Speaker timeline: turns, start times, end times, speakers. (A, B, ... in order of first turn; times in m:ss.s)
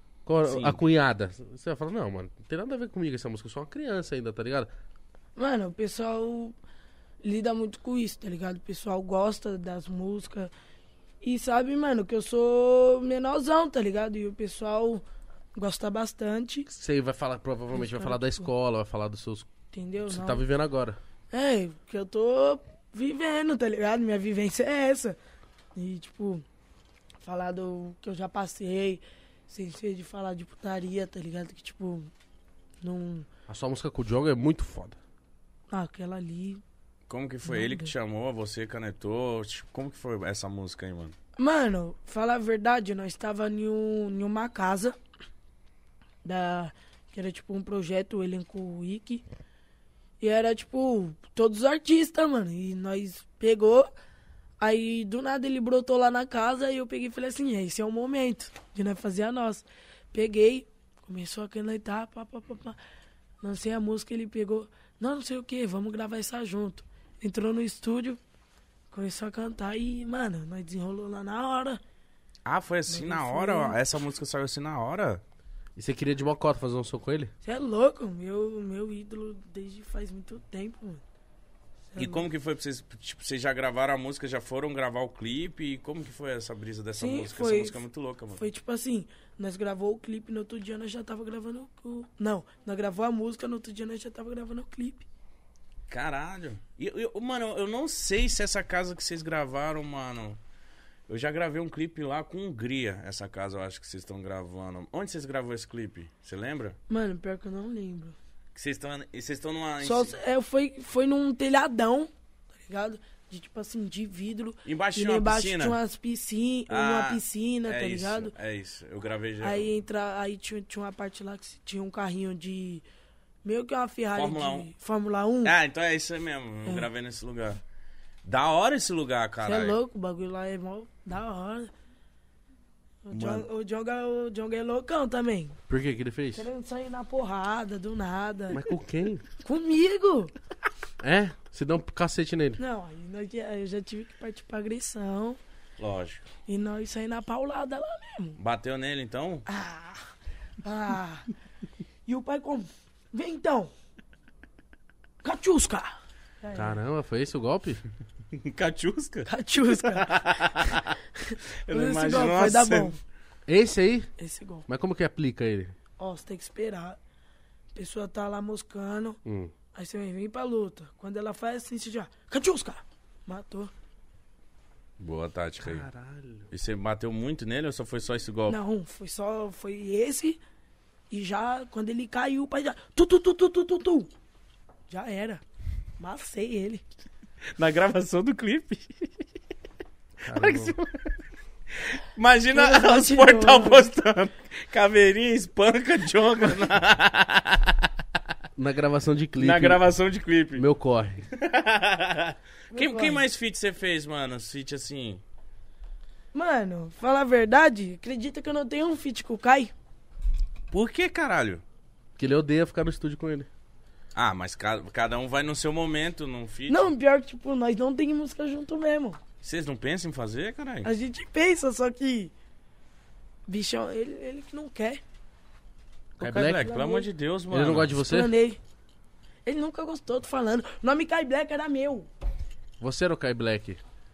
0:00.2-0:04.7 A
0:00.4-0:00.8 B
0:05.4-0:06.5 C
0:07.2-0:10.5 C
0:11.2-0:15.0 C
0:15.6-0:16.7 C
0:16.7-0:19.5 A
0:17.7-0:18.5 C
0:19.7-0:20.4 C
0:20.0-0:21.0 A
0:21.3-0:25.2 C
0:25.7-0:26.4 C
0:27.2-0:32.1 C
0:32.8-0:33.3 C
0:33.5-0:35.0 A
0:35.7-0:36.6 C
0:37.1-0:41.1 B
0:37.4-0:37.9 C
0:41.4-0:45.0 C
0:46.2-0:49.2 C
0:50.2-0:53.9 C
0:54.6-1:02.8 C
1:03.4-1:08.2 C
1:08.9-1:11.8 C
1:12.4-1:15.2 B
1:12.9-1:13.8 C
1:15.8-1:17.3 A
1:17.4-1:21.0 C
1:21.9-1:22.2 C
1:22.0-1:28.4 B
1:27.0-1:27.8 C
1:28.3-1:35.0 C
1:35.9-1:40.4 B
1:41.1-1:46.8 B
1:46.9-1:48.2 C
1:48.5-1:50.1 B
1:49.8-1:58.3 C
1:54.6-1:55.8 B
1:56.7-1:59.7 B
1:59.4-2:02.8 C
2:03.4-2:05.5 C
2:04.1-2:04.7 B
2:05.4-2:07.6 B
2:08.2-2:09.8 B
2:09.4-2:11.7 C
2:13.0-2:15.6 C
2:13.1-2:13.4 B
2:15.7-2:16.5 A
2:16.3-2:18.6 C
2:18.5-2:19.2 A
2:19.4-2:20.3 C
2:21.0-2:22.6 A
2:22.6-2:25.4 C
2:25.8-2:26.2 B
2:26.5-2:28.4 C
2:28.4-2:29.4 B
2:29.5-2:30.1 C
2:30.6-2:31.3 C
2:32.0-2:33.7 C
2:35.2-2:36.8 C
2:36.5-2:37.8 A
2:38.3-2:40.9 B
2:39.2-2:43.0 C
2:41.6-2:42.9 B
2:43.5-2:44.1 A
2:44.2-2:44.6 C
2:44.7-2:45.7 A
2:46.0-2:47.0 C
2:47.7-2:49.2 C
2:49.2-2:49.5 A
2:49.7-2:53.7 C
2:55.0-2:55.8 B
2:55.6-2:56.5 A
2:56.5-2:58.6 B
2:58.5-3:00.4 C
3:01.1-3:04.1 C
3:04.9-3:05.4 C
3:06.0-3:06.8 C
3:07.6-3:09.1 B
3:10.2-3:10.8 A
3:10.3-3:11.1 B
3:11.8-3:17.9 B
3:12.5-3:13.9 C
3:18.6-3:19.8 A
3:19.4-3:20.6 B
3:20.6-3:21.2 A
3:21.3-3:25.2 B
3:22.7-3:23.2 C
3:26.3-3:29.7 C
3:30.7-3:31.6 B
3:32.2-3:33.5 A
3:34.1-3:36.9 B
3:36.7-3:39.2 C
3:39.4-3:40.9 B
3:40.8-3:42.3 C
3:43.5-3:45.0 C
3:46.2-3:48.0 B
3:46.2-3:46.7 A
3:46.6-3:47.1 C
3:47.5-3:48.3 A
3:48.0-3:48.6 C
3:49.4-3:52.1 C
3:52.8-3:53.8 A